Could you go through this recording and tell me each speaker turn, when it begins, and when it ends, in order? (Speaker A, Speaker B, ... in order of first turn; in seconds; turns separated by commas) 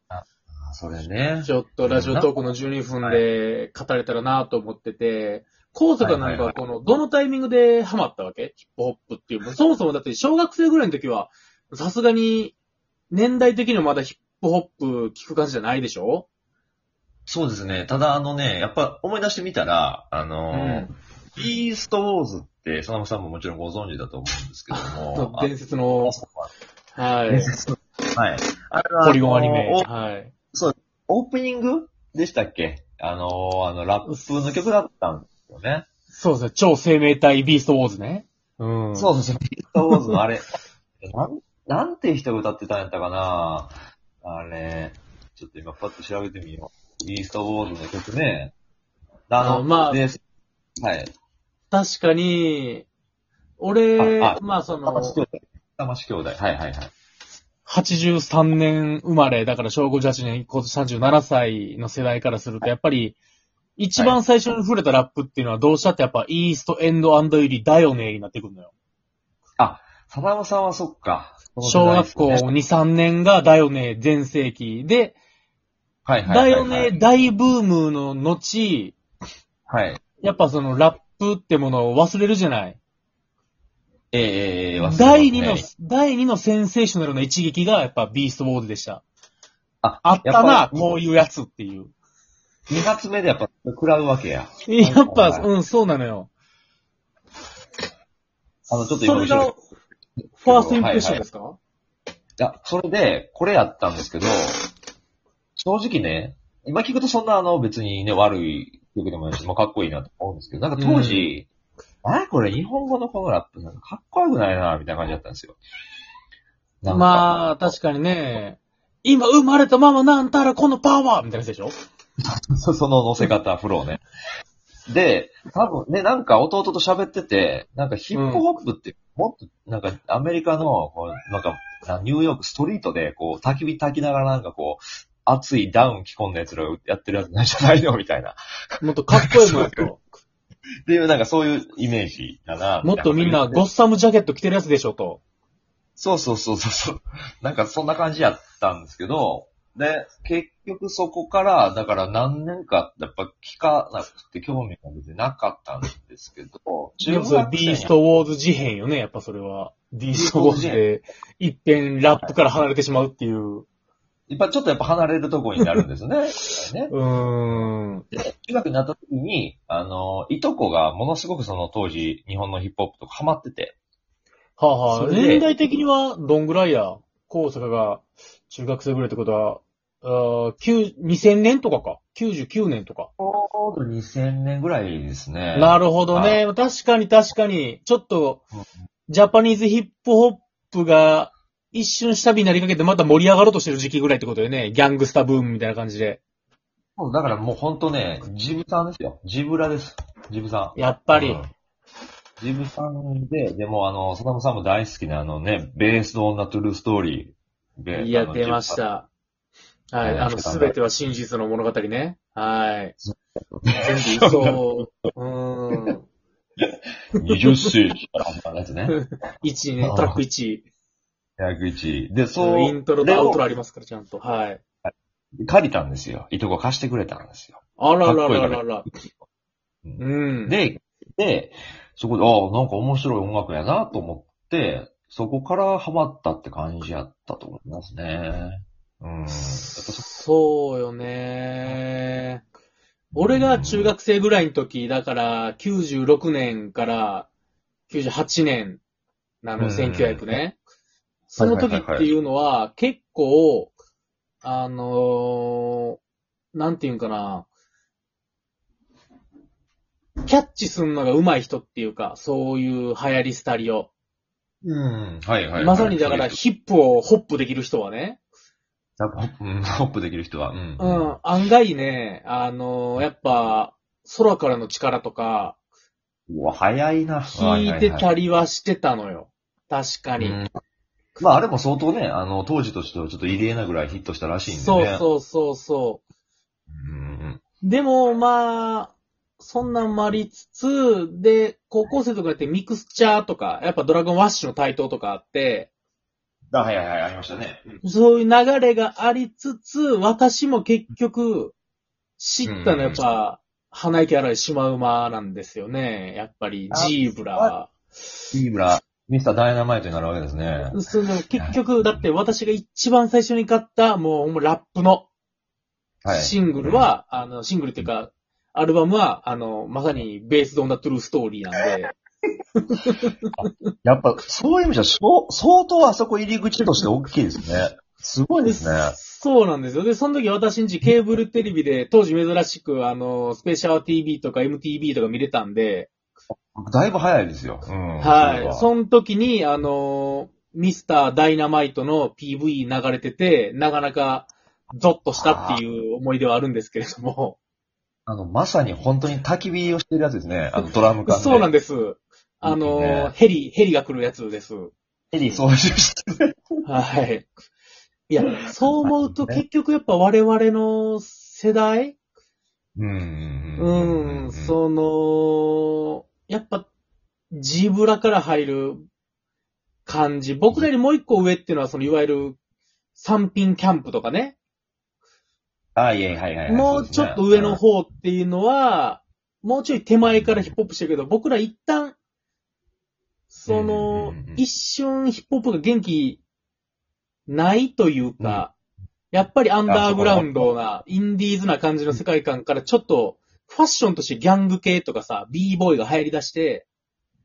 Speaker A: 0.1-2.3, Speaker B: 1.4-12.6, Speaker A: 6.0-6.5, Speaker B: 13.1-16.3, Speaker A: 17.3-26.5, Speaker B: 20.5-20.9, Speaker B: 24.7-26.1, Speaker B: 26.9-27.5, Speaker A: 27.3-29.9, Speaker B: 29.0-30.3, Speaker A: 30.5-35.9, Speaker B: 34.0-34.3, Speaker B: 36.1-39.1, Speaker A: 38.9-40.5, Speaker B: 39.8-40.2, Speaker A: 41.0-48.5, Speaker A: 49.3-50.2, Speaker B: 49.4-50.0, Speaker A: 50.8-51.1, Speaker B: 51.7-52.9, Speaker B: 53.6-55.2, Speaker A: 54.0-56.9, Speaker B: 57.7-63.2, Speaker B: 63.8-68.7, Speaker A: 69.6-72.5, Speaker B: 71.6-75.2, Speaker A: 76.1-76.9, Speaker B: 76.2-79.0, Speaker A: 79.7-80.0, Speaker B: 80.2-82.8, Speaker A: 84.1-85.7, Speaker B: 84.8-89.0, Speaker A: 89.8-90.9, Speaker B: 90.0-91.9, Speaker A: 92.7-95.5, Speaker B: 94.7-96.3, Speaker A: 98.7-99.5, Speaker B: 99.0-99.6, Speaker B: 100.4-101.6, Speaker A: 100.4-101.2, Speaker A: 102.4-104.6, Speaker A: 105.6-111.5, Speaker B: 110.8-111.3, Speaker A: 112.0-115.6, Speaker A: 116.8-117.7, Speaker B: 116.9-121.7, Speaker A: 122.2-124.0, Speaker A: 124.9-138.4, Speaker B: 128.1-128.4, Speaker B: 138.8-140.0, Speaker A: 139.2-139.8, Speaker A: 140.8-143.7, Speaker B: 142.8-145.2, Speaker A: 146.0-157.9, Speaker B: 157.1-163.7, Speaker A: 160.1-160.8, Speaker A: 164.3-166.9, Speaker B: 166.9-168.1, Speaker A: 167.5-173.8, Speaker B: 174.6-183.1, Speaker A: 174.9-175.5, Speaker A: 183.2-186.4, Speaker B: 185.5-188.4, Speaker B: 189.1-196.2, Speaker A: 197.0-201.5, Speaker B: 200.8-201.4, Speaker A: 202.4-208.8, Speaker B: 207.9-209.1, Speaker B: 209.9-212.9, Speaker A: 210.0-210.8, Speaker A: 213.0-214.6, Speaker B: 213.7-216.1, Speaker A: 216.6-219.0, Speaker B: 218.9-220.7, Speaker A: 219.8-220.2, Speaker A: 221.4-223.4, Speaker B: 222.4-224.6, Speaker A: 225.4-228.8, Speaker B: 227.8-228.9, Speaker A: 229.8-240.1, Speaker B: 230.0-230.6, Speaker B: 239.3-242.4, Speaker A: 243.1-243.9, Speaker B: 243.2-247.3, Speaker B: 247.9-248.8, Speaker B: 249.4-250.6, Speaker A: 249.6-250.4, Speaker B: 251.3-253.7, Speaker A: 251.4-252.1, Speaker B: 254.4-256.0, Speaker B: 256.5-257.5, Speaker B: 260.2-263.9, Speaker A: 264.6-266.4, Speaker B: 265.6-268.2, Speaker A: 269.0-271.2, Speaker B: 270.8-275.6, Speaker A: 276.3-278.1, Speaker B: 277.3-280.4, Speaker A: 280.2-280.5, Speaker A: 281.2-285.0, Speaker B: 284.5-286.0, Speaker A: 286.7-287.4, Speaker B: 287.6-295.7, Speaker A: 296.5-297.7, Speaker B: 297.8-301.5, Speaker B: 302.2-307.7, Speaker A: 302.4-303.0, Speaker A: 306.7-307.5, Speaker A: 308.3-310.8, Speaker B: 310.7-315.1, Speaker A: 311.3-312.0, Speaker A: 316.0-316.9, Speaker B: 316.1-322.0, Speaker B: 322.6-323.5, Speaker A: 323.4-329.0, Speaker B: 328.4-335.9, Speaker A: 336.6-338.7, Speaker B: 338.0-347.4, Speaker A: 345.1-345.6, Speaker A: 348.1-351.5, Speaker B: 351.1-354.7, Speaker A: 352.4-353.1, Speaker A: 355.1-356.3, Speaker B: 356.6-357.3, Speaker B: 358.1-362.0, Speaker A: 358.8-359.4, Speaker A: 362.8-364.6, Speaker B: 363.6-366.7, Speaker B: 367.3-368.9, Speaker B: 369.9-372.4, Speaker B: 372.9-374.4, Speaker A: 375.8-377.6, Speaker B: 376.5-382.0, Speaker B: 383.3-386.2, Speaker A: 383.5-384.4, Speaker B: 387.3-388.5, Speaker A: 388.2-388.4, Speaker B: 389.1-396.6, Speaker A: 389.7-390.4